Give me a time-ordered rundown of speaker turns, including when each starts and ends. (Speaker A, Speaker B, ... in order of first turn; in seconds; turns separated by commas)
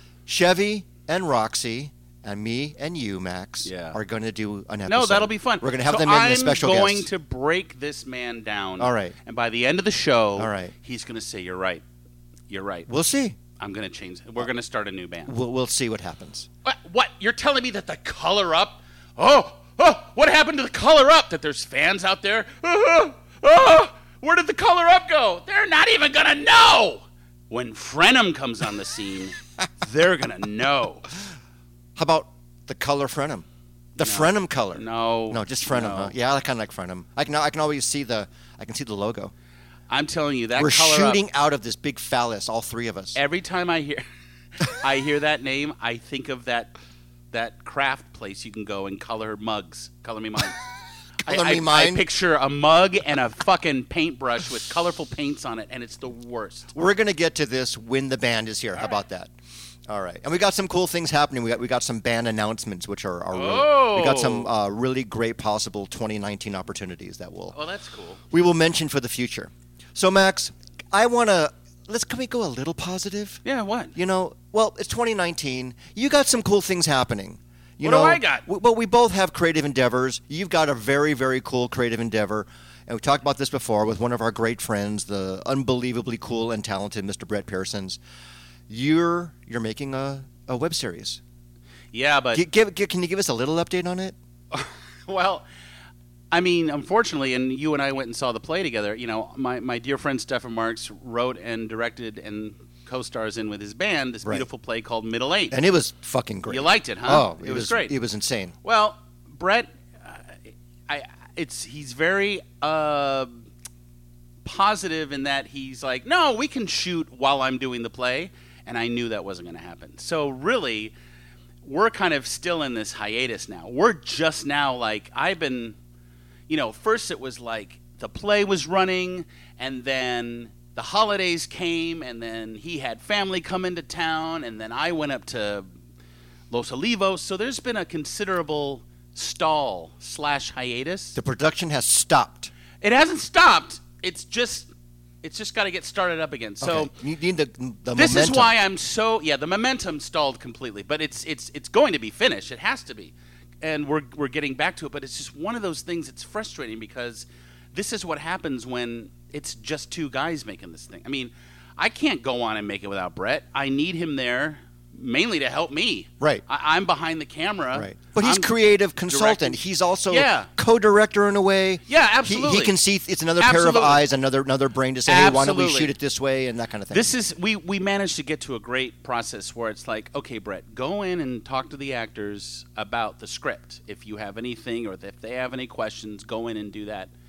Speaker A: 0.3-7.1, Speaker B: 3.6-4.0, Speaker B: 4.9-11.8, Speaker A: 8.8-9.1, Speaker A: 10.4-10.7, Speaker B: 12.5-12.9, Speaker A: 12.9-13.4, Speaker B: 13.6-15.3, Speaker A: 15.3-16.5, Speaker B: 16.6-31.1, Speaker A: 32.0-33.5, Speaker A: 34.0-39.3, Speaker B: 34.0-36.1, Speaker B: 39.9-41.2, Speaker A: 40.6-43.2, Speaker B: 43.1-44.0, Speaker B: 44.6-46.8, Speaker B: 47.3-50.6, Speaker A: 51.2-52.0, Speaker B: 51.2-56.7, Speaker A: 56.8-59.3, Speaker A: 59.9-67.5, Speaker B: 63.3-64.5, Speaker B: 67.5-68.2, Speaker A: 68.3-73.4, Speaker B: 73.5-73.9, Speaker A: 74.0-88.0, Speaker B: 77.8-78.5, Speaker A: 88.7-91.2, Speaker B: 91.9-92.4, Speaker A: 92.3-94.2, Speaker B: 94.5-95.4, Speaker B: 96.3-105.6, Speaker A: 105.5-108.5, Speaker B: 106.5-108.0, Speaker B: 108.6-113.5, Speaker B: 114.4-120.9, Speaker B: 121.6-125.8, Speaker B: 126.5-135.7, Speaker B: 136.5-141.2, Speaker A: 141.2-142.5, Speaker B: 142.8-144.7, Speaker B: 145.2-146.9, Speaker A: 146.6-148.5, Speaker B: 147.9-168.5, Speaker A: 167.7-177.1, Speaker B: 169.1-170.5, Speaker B: 171.9-172.7, Speaker B: 173.4-174.0, Speaker B: 175.1-175.9, Speaker B: 176.9-187.1